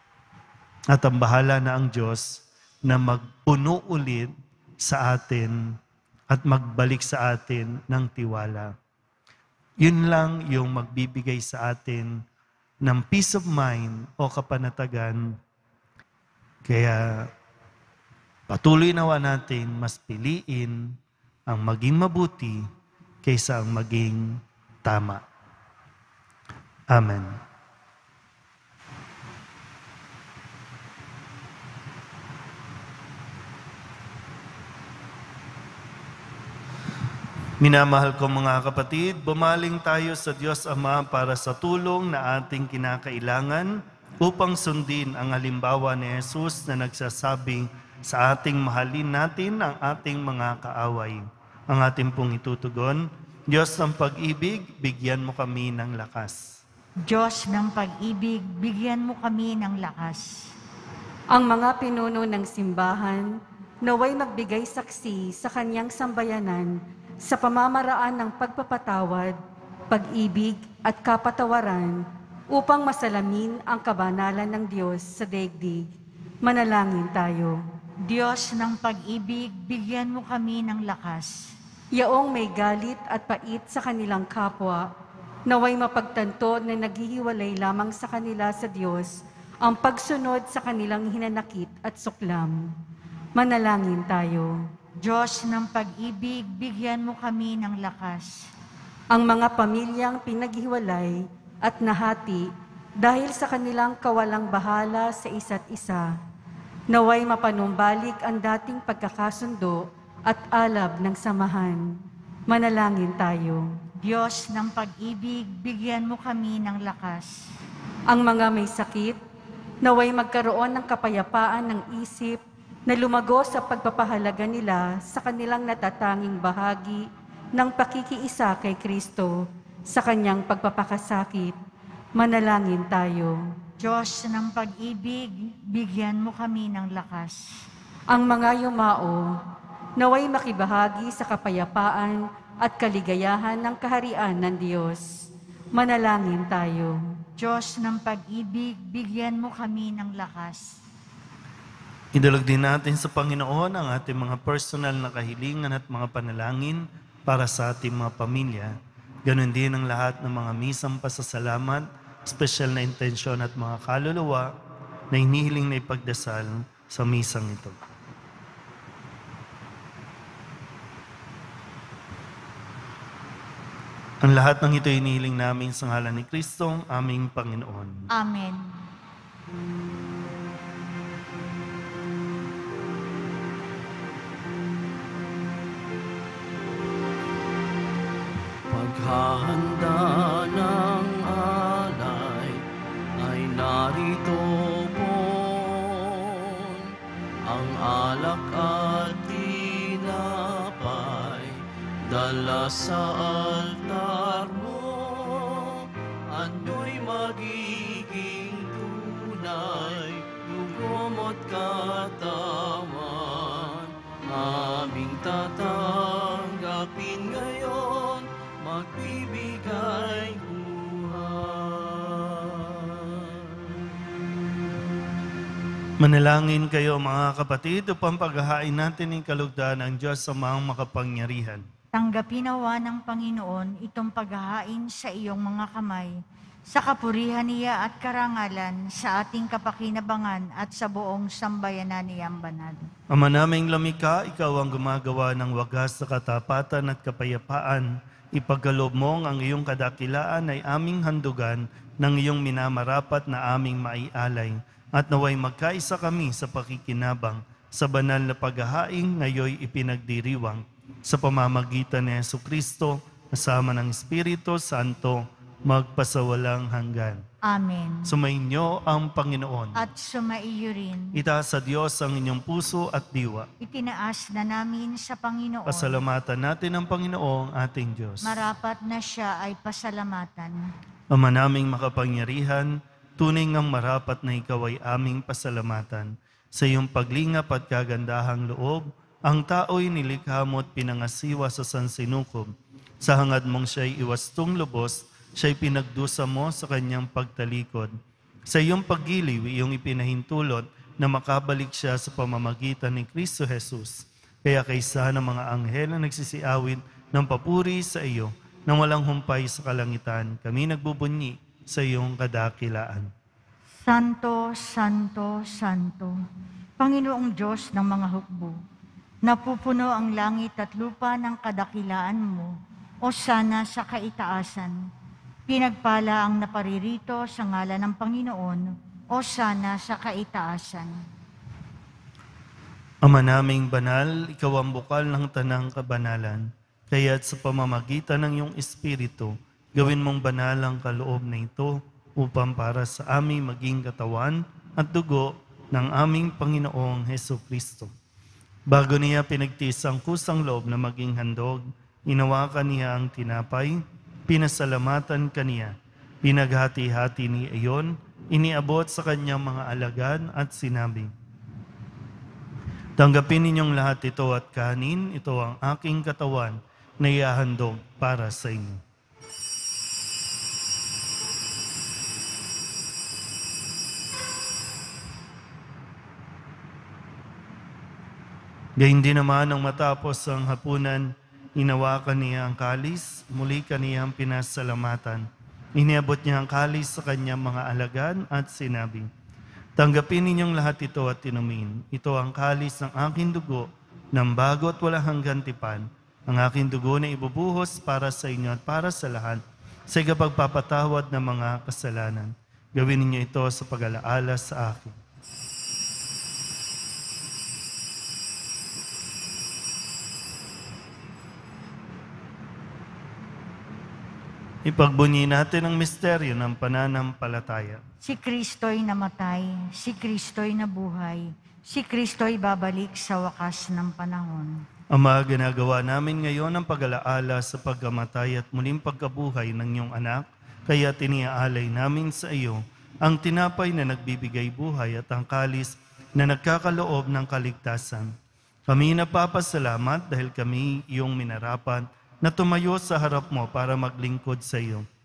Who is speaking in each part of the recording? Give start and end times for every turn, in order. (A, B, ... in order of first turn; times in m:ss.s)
0:00.9-0:05.8 A
0:06.3-0:08.7 A
0:09.8-0:12.2 A
0:12.8-0:15.4 A
0:16.6-0:17.3 A
0:18.5-0:22.7 A
0:23.2-0:25.2 A
0:26.9-0:27.4 A
0:37.6-0:56.6 A
0:57.0-1:00.5 B
1:01.3-1:09.4 C
1:09.9-1:15.9 C
1:16.4-1:17.6 C
1:18.1-1:21.5 B
1:21.9-1:24.9 C
1:25.5-1:32.7 C
1:33.3-1:34.6 C
1:35.0-1:38.5 B
1:39.1-1:46.1 C
1:46.9-1:53.7 C
1:54.0-1:57.4 B
1:58.1-1:59.2 C
1:59.8-2:11.6 C
2:12.2-2:13.4 C
2:13.8-2:17.5 B
2:18.1-2:19.4 C
2:20.0-2:27.0 C
2:27.4-2:30.8 B
2:32.1-2:44.5 A
2:45.1-2:47.7 A
2:54.2-2:58.0 A
2:58.1-2:58.8 B
3:08.7-3:12.6 D
3:13.2-3:16.9 D
3:17.4-3:43.9 D
3:46.0-3:51.6 A
3:51.9-3:56.2 B
3:56.7-4:02.9 B
4:03.1-4:27.2 A
4:27.4-4:28.1 B
4:28.1-4:29.8 A
4:29.8-4:31.2 B
4:31.1-4:33.5 A
4:33.6-4:36.0 B
4:35.7-4:38.4 A
4:38.2-4:40.7 B
4:41.1-4:57.9 A
4:58.5-5:13.1 A
5:13.8-5:16.2 B
5:16.8-5:18.6 B
5:19.2-5:22.5 B
5:23.0-5:24.8 B
5:25.5-5:31.0 B
5:33.0-5:47.9 A
5:48.7-6:01.1 A
6:03.0-6:08.8 A
6:18.8-6:29.1 A
6:29.8-6:44.9 A
6:54.6-6:57.8 A
6:58.0-7:04.6 B
7:04.9-7:18.1 A
7:18.7-7:24.8 A